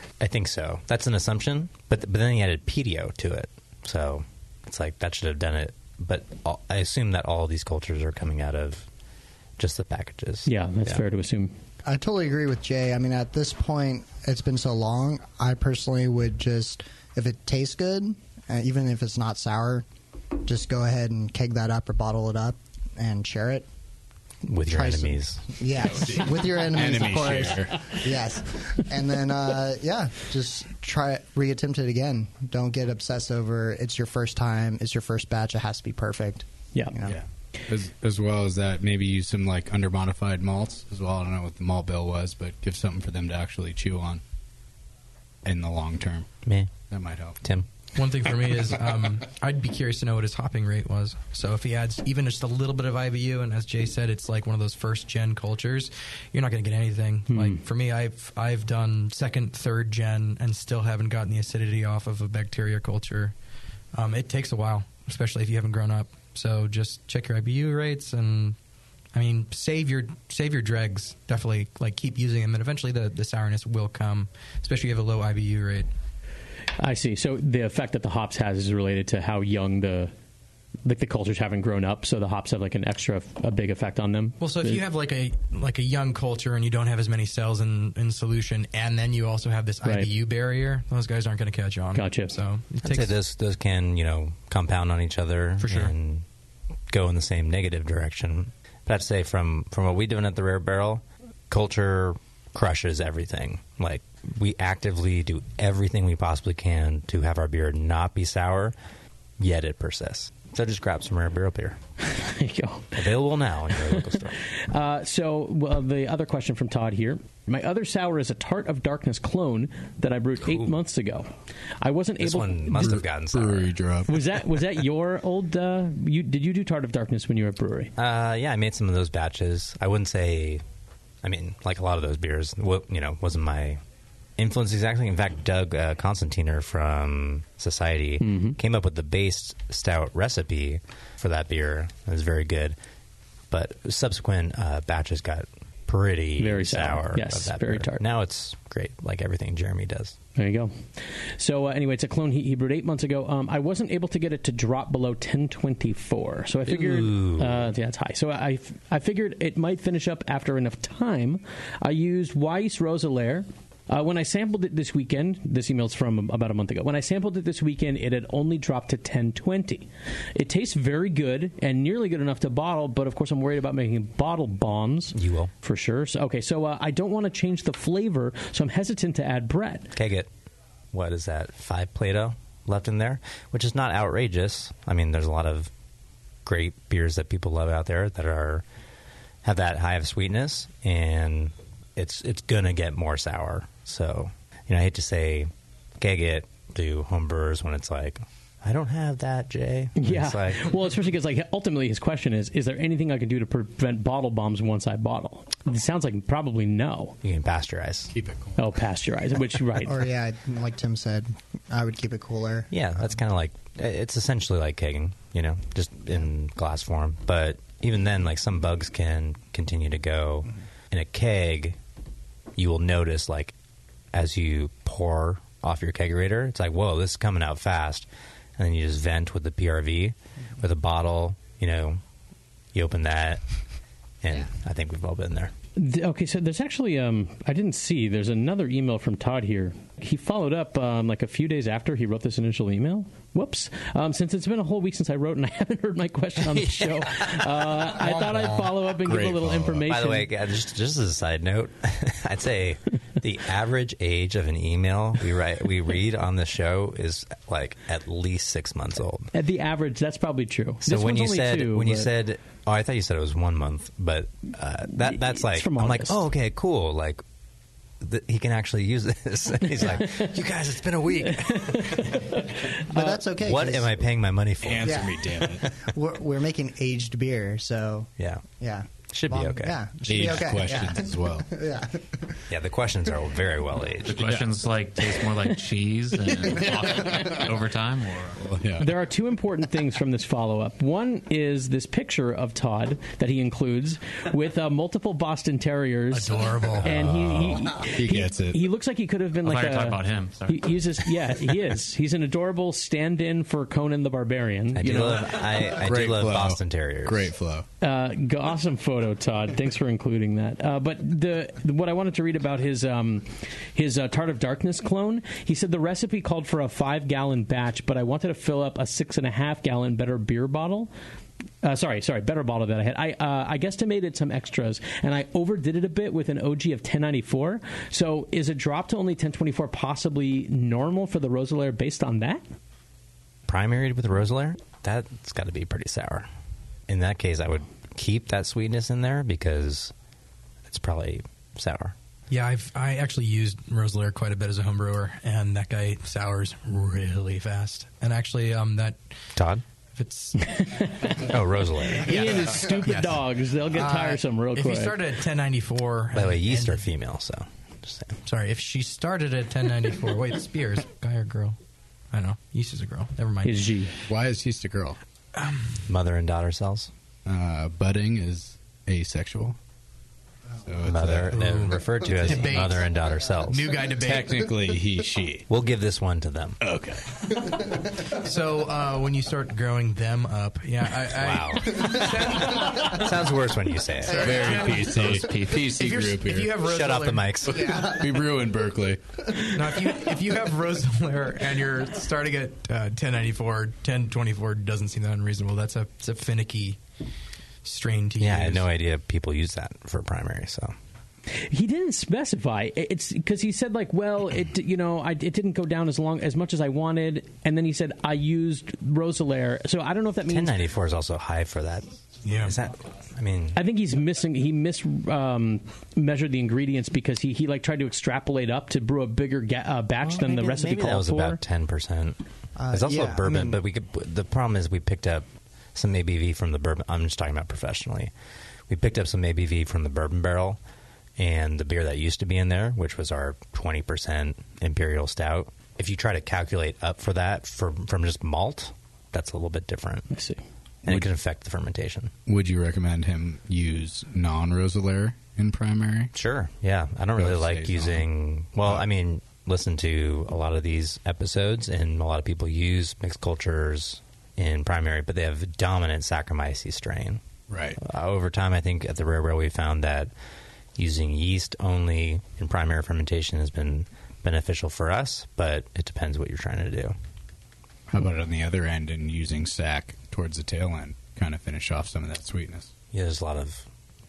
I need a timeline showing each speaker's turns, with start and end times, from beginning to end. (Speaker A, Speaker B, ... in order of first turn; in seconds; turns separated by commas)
Speaker A: 0.2-8.9, Speaker A: 9.6-11.0, Speaker B: 10.4-11.5, Speaker C: 11.9-19.9, Speaker C: 20.4-23.6, Speaker A: 24.4-25.4, Speaker C: 24.5-37.1, Speaker D: 25.8-27.9, Speaker D: 37.1-44.2, Speaker D: 45.4-46.3, Speaker A: 46.5-46.7, Speaker D: 46.9-47.4, Speaker E: 48.0-63.3, Speaker B: 57.3-57.6, Speaker E: 63.9-68.6, Speaker E: 69.1-75.9, Speaker B: 76.8-80.1, Speaker B: 80.8-84.8, Speaker E: 84.4-93.1, Speaker B: 89.8-90.1, Speaker B: 91.9-92.3, Speaker A: 92.8-96.2, Speaker E: 95.6-95.9, Speaker A: 96.9-108.7, Speaker A: 109.4-111.8, Speaker B: 112.1-113.0, Speaker A: 112.9-114.4, Speaker B: 113.9-123.0, Speaker A: 120.5-120.8, Speaker A: 122.2-123.8, Speaker D: 122.8-124.2, Speaker B: 124.1-127.9, Speaker A: 128.0-130.6, Speaker A: 131.2-133.8, Speaker A: 134.4-142.8, Speaker B: 138.2-138.6, Speaker A: 143.5-150.2, Speaker B: 146.4-148.0, Speaker B: 150.4-179.9, Speaker A: 156.7-157.7, Speaker A: 175.1-175.5, Speaker A: 179.9-180.3, Speaker A: 180.9-185.7, Speaker A: 186.4-188.6, Speaker A: 189.4-200.7, Speaker B: 200.0-207.2, Speaker A: 207.2-208.1, Speaker D: 208.1-208.6, Speaker B: 208.6-210.0, Speaker C: 209.8-212.7, Speaker A: 212.7-221.8, Speaker A: 222.6-223.6, Speaker A: 224.1-228.1, Speaker A: 228.6-232.0, Speaker A: 232.7-233.4, Speaker A: 234.2-235.5, Speaker B: 235.8-250.3, Speaker A: 246.5-247.0, Speaker D: 247.9-249.8, Speaker A: 249.9-259.3, Speaker B: 259.3-262.1, Speaker A: 260.8-267.2, Speaker B: 265.0-266.3, Speaker A: 268.0-272.1, Speaker B: 269.8-270.3, Speaker B: 271.4-273.1, Speaker C: 272.9-274.1, Speaker A: 273.4-275.1, Speaker D: 274.6-275.7, Speaker C: 274.8-282.4, Speaker A: 278.2-278.4, Speaker A: 279.1-280.4, Speaker D: 280.0-281.5, Speaker A: 282.5-284.3, Speaker F: 284.1-288.4, Speaker D: 284.2-284.5, Speaker D: 286.4-287.4, Speaker D: 288.4-288.9, Speaker B: 288.8-305.2, Speaker E: 296.1-296.9, Speaker D: 296.8-298.7, Speaker F: 299.4-300.7, Speaker A: 304.7-307.3, Speaker D: 305.5-307.6, Speaker B: 307.8-320.9, Speaker B: 321.6-332.4, Speaker A: 333.5-336.3, Speaker A: 336.9-339.9, Speaker A: 340.6-341.9, Speaker E: 342.3-349.0, Speaker A: 349.4-349.6, Speaker E: 349.9-350.6, Speaker B: 350.4-351.3, Speaker A: 351.2-352.1, Speaker E: 351.9-356.8, Speaker B: 352.0-355.0, Speaker A: 356.1-358.2, Speaker E: 358.2-361.6, Speaker E: 362.1-363.6, Speaker B: 363.4-363.9, Speaker D: 364.1-365.0, Speaker E: 365.3-365.8, Speaker A: 365.9-366.9, Speaker D: 367.3-369.6, Speaker D: 370.6-372.7, Speaker A: 370.8-373.8, Speaker E: 371.3-374.4, Speaker D: 373.9-375.4, Speaker A: 375.5-376.6, Speaker D: 376.6-377.7, Speaker E: 378.1-383.0, Speaker A: 381.1-384.4, Speaker E: 384.1-387.8, Speaker D: 384.1-386.6, Speaker A: 386.6-387.8, Speaker D: 387.4-390.0, Speaker E: 389.6-396.8, Speaker E: 397.6-398.7, Speaker A: 398.2-400.7, Speaker B: 401.3-410.6, Speaker A: 410.3-413.6, Speaker E: 412.2-412.6, Speaker B: 413.6-421.4, Speaker A: 420.0-422.2, Speaker C: 422.6-423.6, Speaker A: 422.7-428.1, Speaker A: 428.7-430.6, Speaker A: 431.2-440.1, Speaker B: 440.1-440.4, Speaker A: 440.8-442.1, Speaker D: 442.3-446.1, Speaker A: 446.1-457.2, Speaker D: 447.1-448.1, Speaker D: 457.5-457.8, Speaker A: 457.8-460.1, Speaker A: 460.8-466.9, Speaker D: 467.9-472.7, Speaker A: 472.9-473.7